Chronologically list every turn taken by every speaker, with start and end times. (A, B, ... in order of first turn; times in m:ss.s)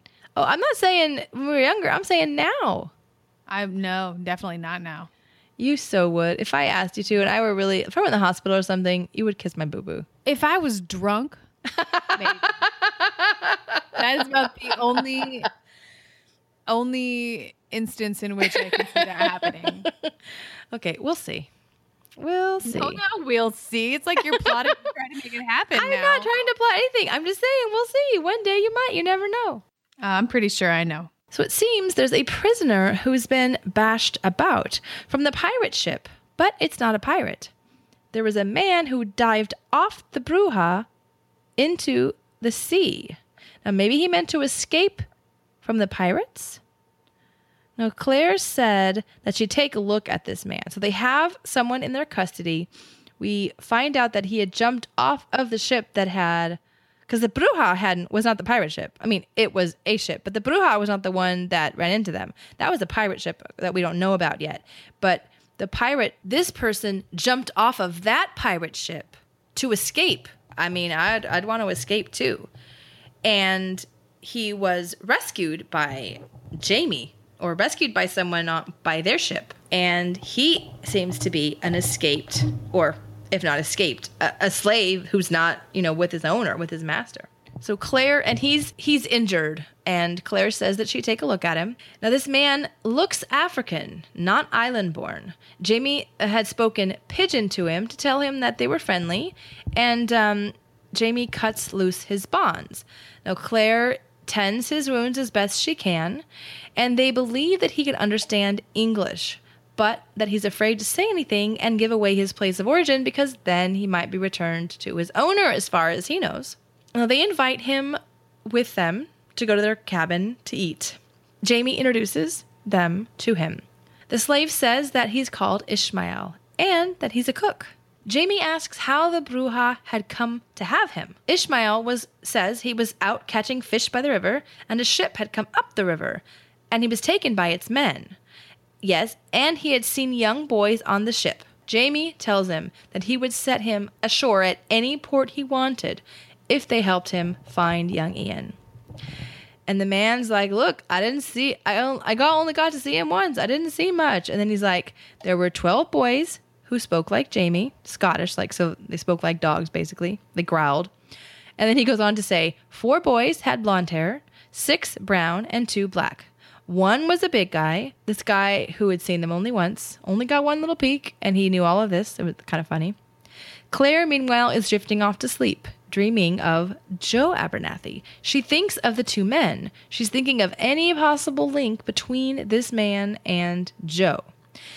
0:00.4-0:02.9 A
0:03.5-0:05.1 B
0:05.6-0:10.1 A
0:10.2-0:11.4 B
0:11.7-0:13.6 A
0:12.2-0:12.6 B
0:14.0-0:15.5 B
0:16.7-0:19.9 B
0:18.8-0:19.5 A
0:20.7-0:21.5 A
0:22.2-0:23.0 A
0:22.6-0:26.3 B
0:25.7-0:29.6 A
0:30.0-0:31.1 B
0:31.3-0:37.5 A
0:38.1-0:40.9 A
0:41.6-0:45.1 A
0:45.6-0:46.6 A
0:47.8-0:52.7 A
0:53.2-1:12.5 A
1:13.2-1:46.2 A
1:46.8-2:18.2 A
2:18.8-2:28.6 A
2:29.7-2:40.9 A
2:41.6-2:53.0 A
2:53.7-3:04.3 A